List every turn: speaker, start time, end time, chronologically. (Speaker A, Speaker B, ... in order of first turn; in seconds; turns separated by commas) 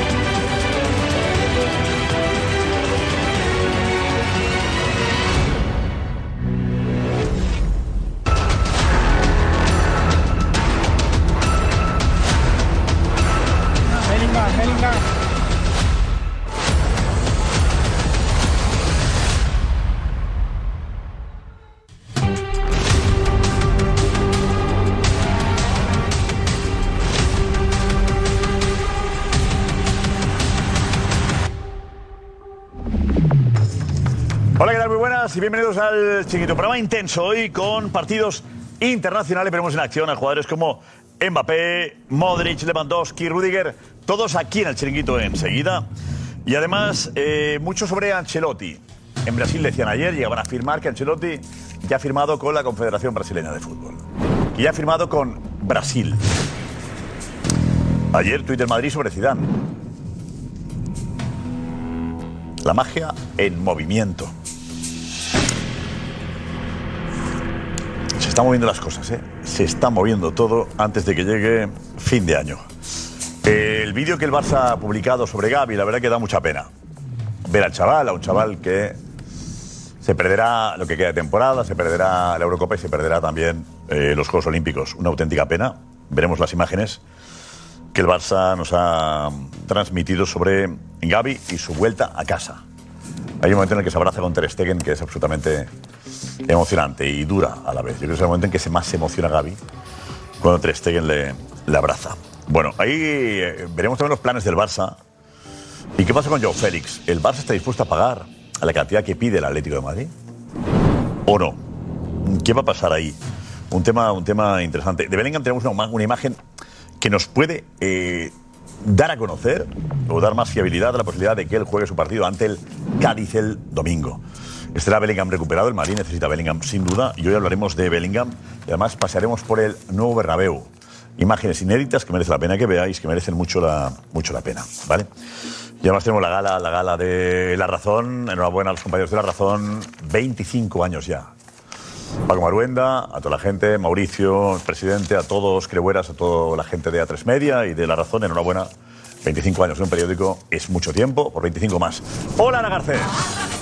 Speaker A: 34.6-45.9, Speaker A: 46.5-54.0, Speaker A: 54.5-56.2, Speaker A: 58.1-59.5, Speaker A: 62.6-64.3, Speaker A: 68.2-72.6, Speaker A: 73.4-76.7, Speaker A: 77.4-79.0, Speaker A: 80.0-87.0, Speaker A: 87.9-92.6, Speaker A: 93.4-95.7, Speaker A: 96.5-99.6, Speaker A: 100.4-105.0, Speaker A: 106.0-110.1, Speaker A: 111.3-111.6, Speaker A: 112.2-113.2, Speaker A: 113.7-116.4, Speaker A: 117.0-124.2, Speaker A: 124.7-135.1, Speaker A: 135.8-141.3, Speaker A: 142.3-148.7, Speaker A: 149.2-153.1